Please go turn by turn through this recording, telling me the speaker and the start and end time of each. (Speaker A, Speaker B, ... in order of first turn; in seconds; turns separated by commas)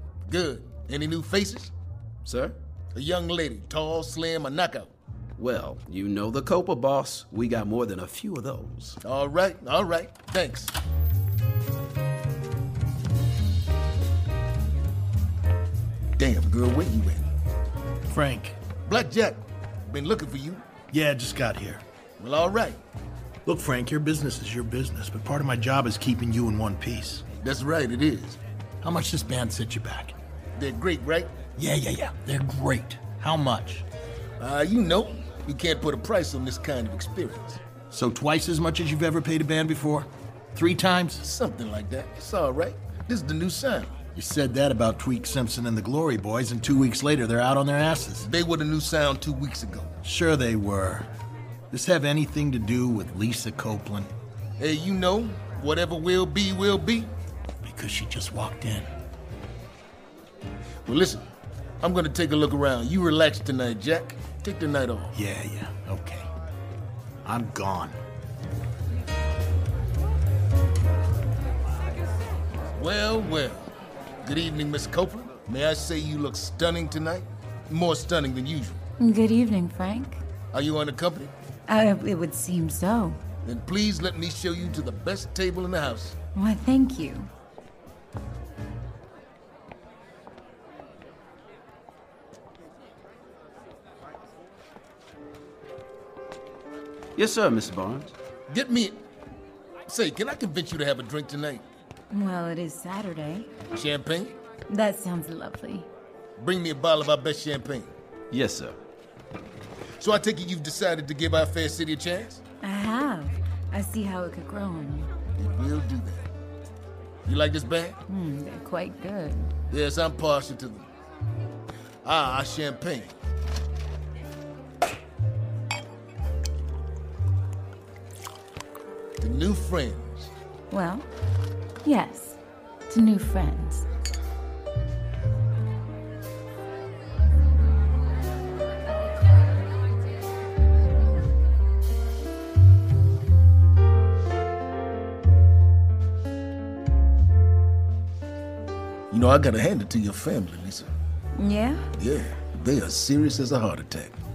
Speaker A: 0.3-1.7, Speaker B: 2.2-2.6, Speaker A: 2.9-4.9, Speaker B: 5.4-9.0, Speaker A: 9.0-10.7, Speaker A: 16.2-17.3, Speaker C: 18.1-18.6, Speaker A: 18.9-20.7, Speaker C: 20.9-21.8, Speaker A: 22.2-22.8, Speaker C: 23.5-27.2, Speaker A: 27.4-28.4, Speaker C: 28.8-30.1, Speaker A: 30.6-31.4, Speaker C: 31.6-33.9, Speaker A: 34.4-37.6, Speaker C: 37.9-41.2, Speaker A: 41.2-43.9, Speaker C: 44.1-48.3, Speaker A: 48.2-49.9, Speaker C: 50.0-51.1, Speaker C: 51.7-54.1, Speaker A: 54.6-57.1, Speaker C: 57.6-58.9, Speaker A: 60.9-61.3, Speaker A: 61.8-65.2, Speaker C: 65.1-66.3, Speaker C: 67.2-68.0, Speaker A: 72.7-73.7, Speaker A: 74.2-78.8, Speaker D: 79.0-80.2, Speaker A: 80.5-81.3, Speaker D: 81.7-83.2, Speaker A: 83.5-86.2, Speaker D: 86.3-87.3, Speaker B: 97.2-98.1, Speaker A: 98.5-99.0, Speaker A: 99.9-101.6, Speaker D: 102.1-103.6, Speaker A: 103.7-104.3, Speaker D: 104.7-105.9, Speaker A: 106.4-107.9, Speaker B: 108.3-108.8, Speaker A: 110.0-112.4, Speaker D: 112.6-115.1, Speaker A: 115.4-116.3, Speaker A: 117.3-118.0, Speaker D: 118.1-119.5, Speaker A: 119.7-120.9, Speaker A: 122.0-123.1, Speaker A: 129.2-130.3, Speaker D: 130.7-131.1, Speaker D: 131.8-133.9, Speaker A: 149.1-150.9, Speaker D: 151.4-151.9, Speaker A: 151.9-154.2